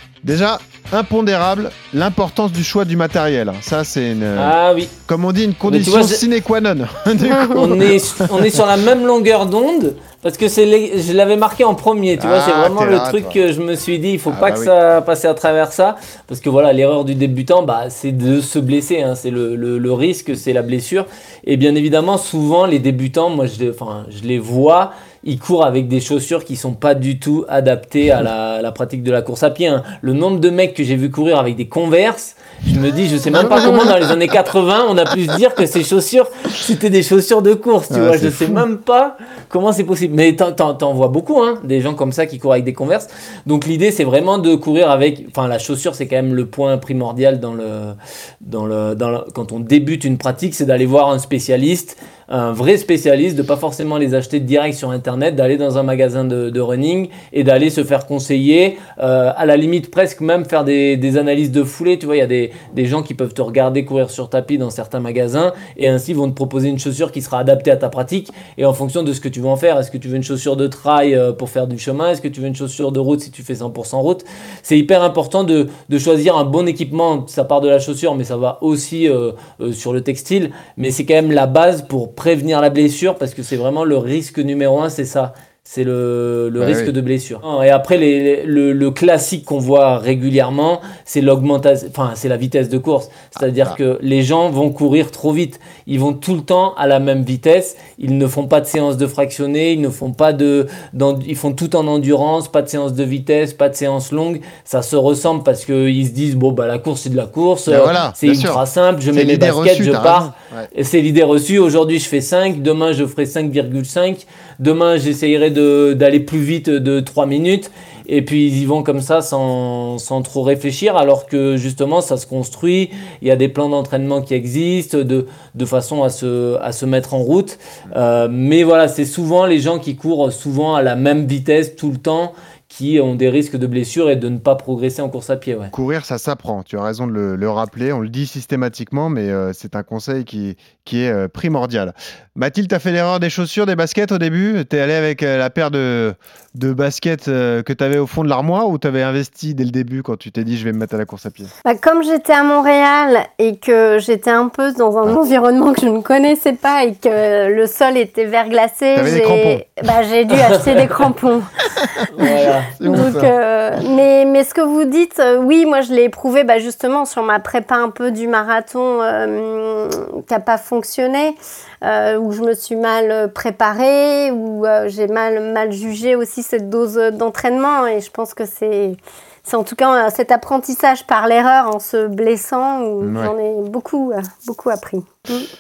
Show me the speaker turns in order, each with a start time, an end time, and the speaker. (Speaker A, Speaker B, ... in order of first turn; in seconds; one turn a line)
Speaker A: 0.2-4.6
Speaker B: 4.4-4.9
Speaker A: 5.1-8.0
Speaker B: 5.7-6.2
Speaker C: 7.3-7.6
Speaker B: 7.5-135.7
Speaker A: 12.2-13.4
Speaker A: 14.3-14.7
Speaker A: 33.3-33.9
Speaker A: 37.9-38.6
Speaker A: 86.6-86.9
Speaker A: 107.7-108.6
Speaker A: 109.1-110.7
Speaker A: 135.7-151.5
Speaker C: 151.7-161.5
Speaker A: 158.9-159.6
Speaker A: 161.9-163.3
Speaker B: 162.1-163.1
Speaker C: 162.9-185.5
Speaker A: 183.0-183.3